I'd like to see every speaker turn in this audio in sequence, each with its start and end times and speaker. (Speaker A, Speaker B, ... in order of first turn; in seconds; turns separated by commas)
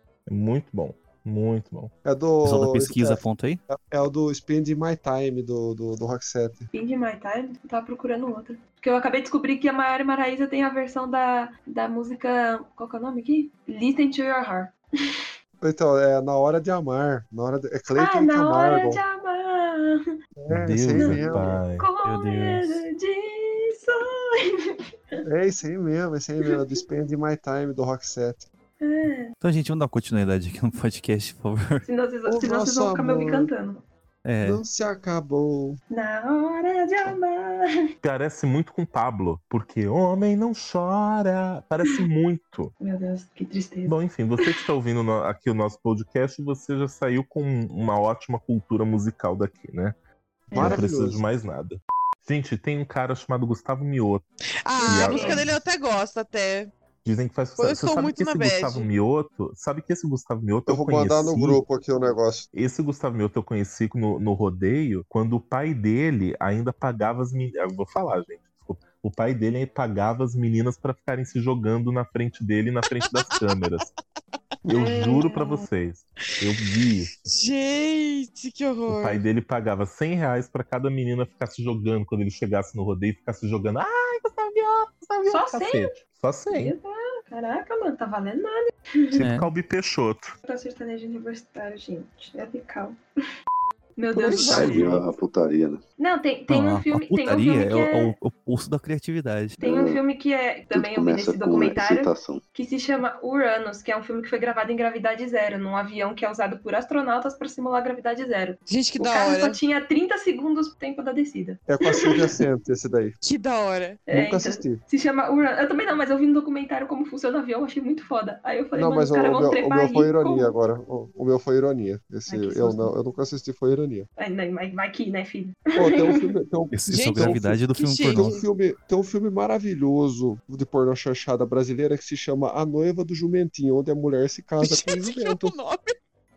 Speaker A: 0.3-1.9, Speaker B: 2.0-6.7, Speaker C: 2.4-3.6, Speaker D: 6.7-14.7, Speaker B: 15.6-19.0, Speaker D: 17.9-20.1, Speaker B: 20.4-21.6, Speaker A: 20.5-21.9, Speaker D: 20.9-25.2, Speaker C: 22.0-22.8, Speaker B: 25.2-28.5, Speaker D: 26.4-26.8, Speaker D: 28.8-29.3, Speaker C: 29.4-31.8, Speaker D: 31.8-33.8, Speaker B: 32.2-33.5, Speaker C: 34.2-34.6, Speaker B: 34.4-35.8, Speaker D: 35.9-37.9, Speaker A: 38.0-42.7, Speaker D: 42.8-44.6, Speaker A: 43.9-50.0, Speaker D: 50.5-50.8, Speaker B: 50.5-51.2, Speaker A: 50.5-54.2, Speaker E: 54.6-56.7, Speaker D: 54.8-55.5, Speaker A: 54.8-55.5, Speaker A: 57.0-61.6, Speaker E: 57.6-58.9, Speaker B: 60.7-62.5, Speaker A: 62.5-73.9, Speaker E: 73.0-73.8, Speaker A: 74.7-77.1, Speaker D: 74.7-75.7, Speaker E: 76.3-79.2, Speaker A: 78.9-86.7, Speaker D: 85.3-89.3, Speaker A: 89.1-90.3, Speaker C: 89.2-89.5, Speaker D: 90.4-93.0, Speaker D: 94.0-95.0, Speaker A: 94.3-95.0, Speaker F: 94.3-95.8, Speaker D: 96.0-98.1, Speaker C: 96.5-99.6, Speaker D: 99.6-112.3, Speaker F: 99.6-100.0, Speaker F: 100.7-102.4, Speaker E: 108.7-109.6, Speaker B: 111.7-113.2, Speaker E: 113.2-114.0, Speaker D: 114.1-120.5, Speaker B: 114.1-114.8, Speaker B: 118.7-124.1, Speaker D: 122.3-122.9, Speaker D: 124.2-126.3, Speaker B: 125.8-135.5, Speaker C: 126.7-128.4, Speaker E: 126.9-128.4, Speaker E: 134.6-135.9